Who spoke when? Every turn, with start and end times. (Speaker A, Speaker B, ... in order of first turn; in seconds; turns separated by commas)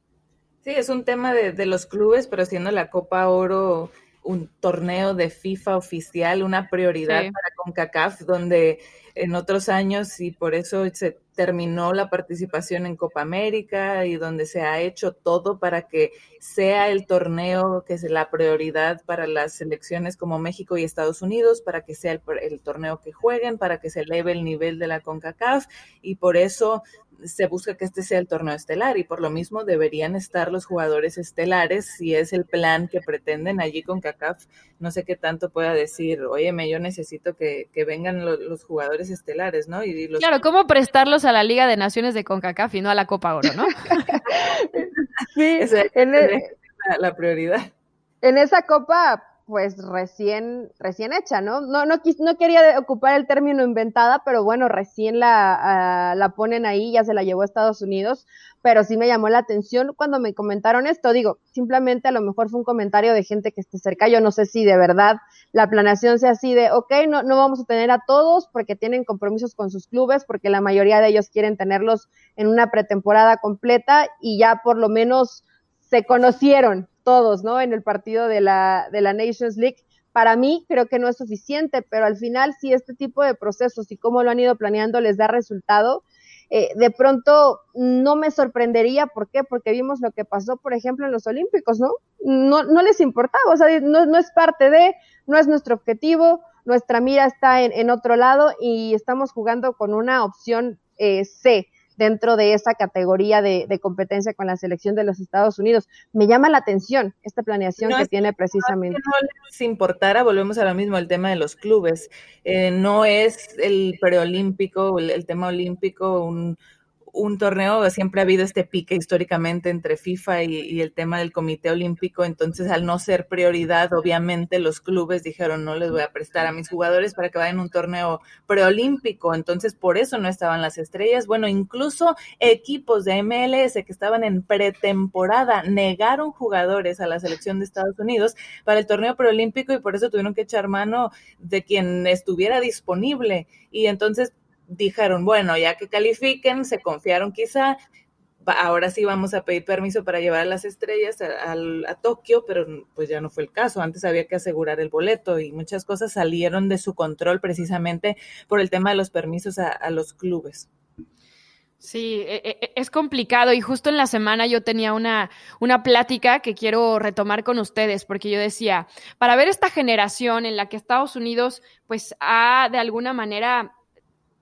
Speaker A: 0.6-40.4, Speaker B: 7.1-7.3, Speaker B: 40.2-44.0, Speaker C: 44.2-46.5, Speaker A: 45.6-47.7, Speaker C: 48.2-109.0, Speaker A: 107.8-116.6, Speaker A: 117.1-147.8, Speaker A: 148.4-160.7, Speaker B: 161.8-173.7